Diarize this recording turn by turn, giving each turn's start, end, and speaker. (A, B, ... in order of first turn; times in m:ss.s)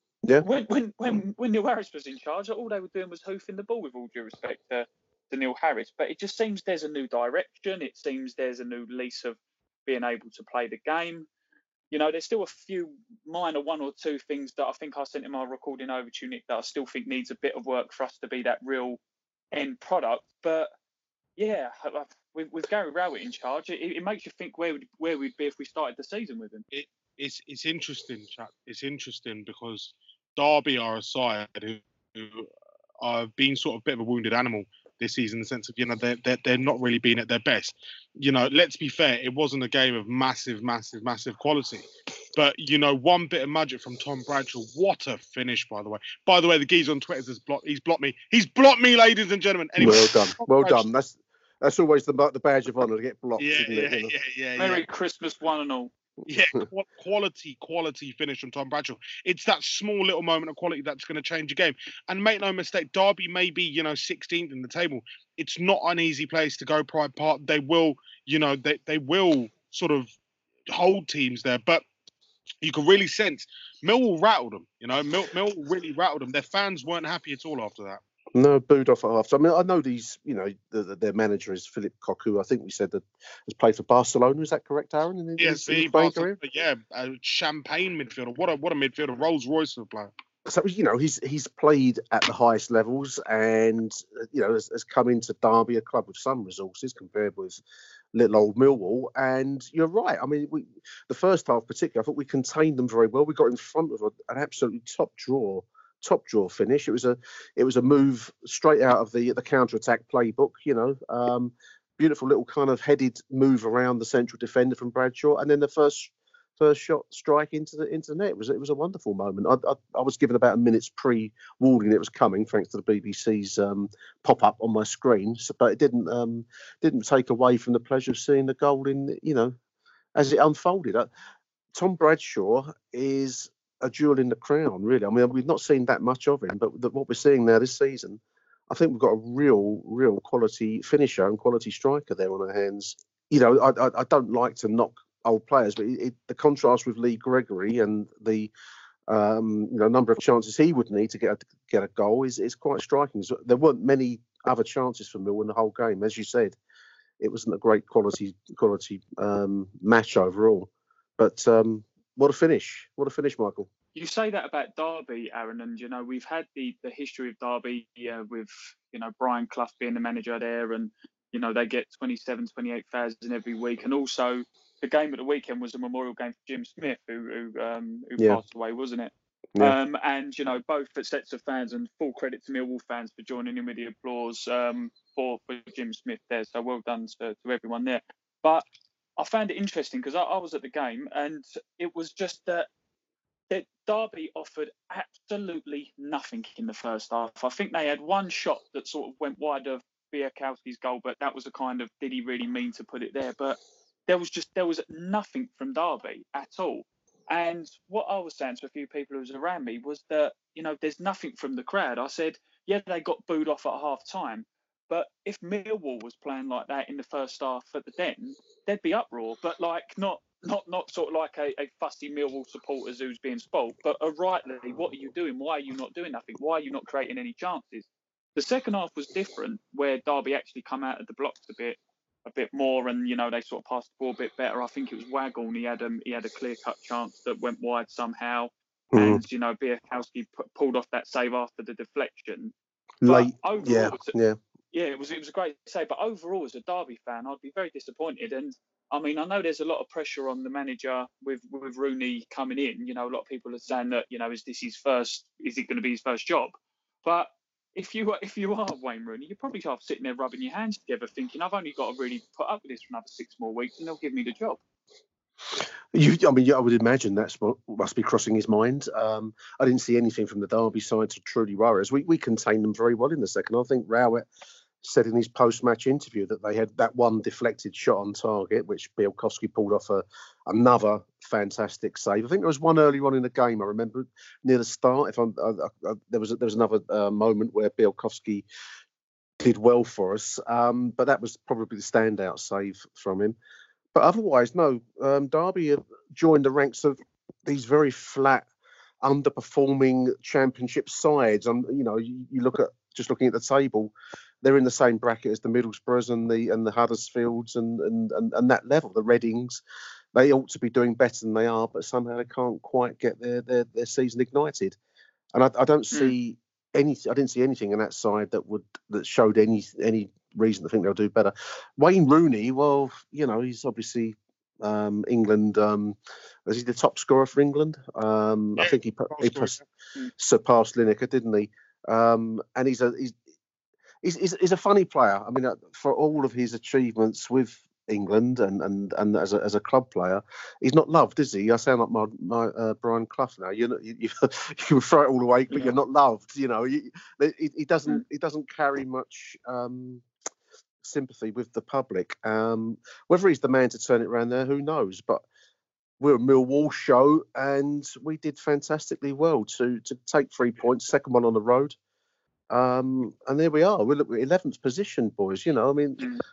0:00.4-0:11.3 A
0:11.9-0:19.0 A
0:19.5-0:20.7 A
0:21.4-0:26.6 A
0:26.7-0:32.5 B
0:33.0-0:50.9 B
0:49.8-0:54.1 C
0:53.4-0:54.8 B
0:54.6-0:55.9 A
0:56.3-1:10.1 B
1:10.7-1:11.8 B
1:12.6-1:18.0 B
1:18.3-1:26.4 C
1:25.4-1:30.1 B
1:30.4-1:37.6 C
1:38.1-2:09.6 C
2:10.2-2:11.1 C
2:11.7-2:28.5 C
2:29.1-2:36.6 C
2:37.2-2:43.7 C
2:43.9-3:08.7 A
3:09.2-3:12.7 A
3:13.5-4:02.5 A
3:58.9-3:59.2 C
4:03.0-4:04.4 C
4:03.0-4:04.1 A
4:04.7-4:24.6 A
4:25.6-4:34.2 C
4:34.8-4:48.4 C
4:49.4-4:53.4 C
4:53.9-4:58.5 C
4:59.0-5:09.6 C
5:10.1-5:14.8 C
5:15.3-5:29.6 C
5:28.6-5:29.6 B
5:30.2-5:33.2 C
5:34.0-5:50.0 C
5:50.8-5:55.2 C
5:56.0-6:01.8 C
6:02.5-6:06.0 C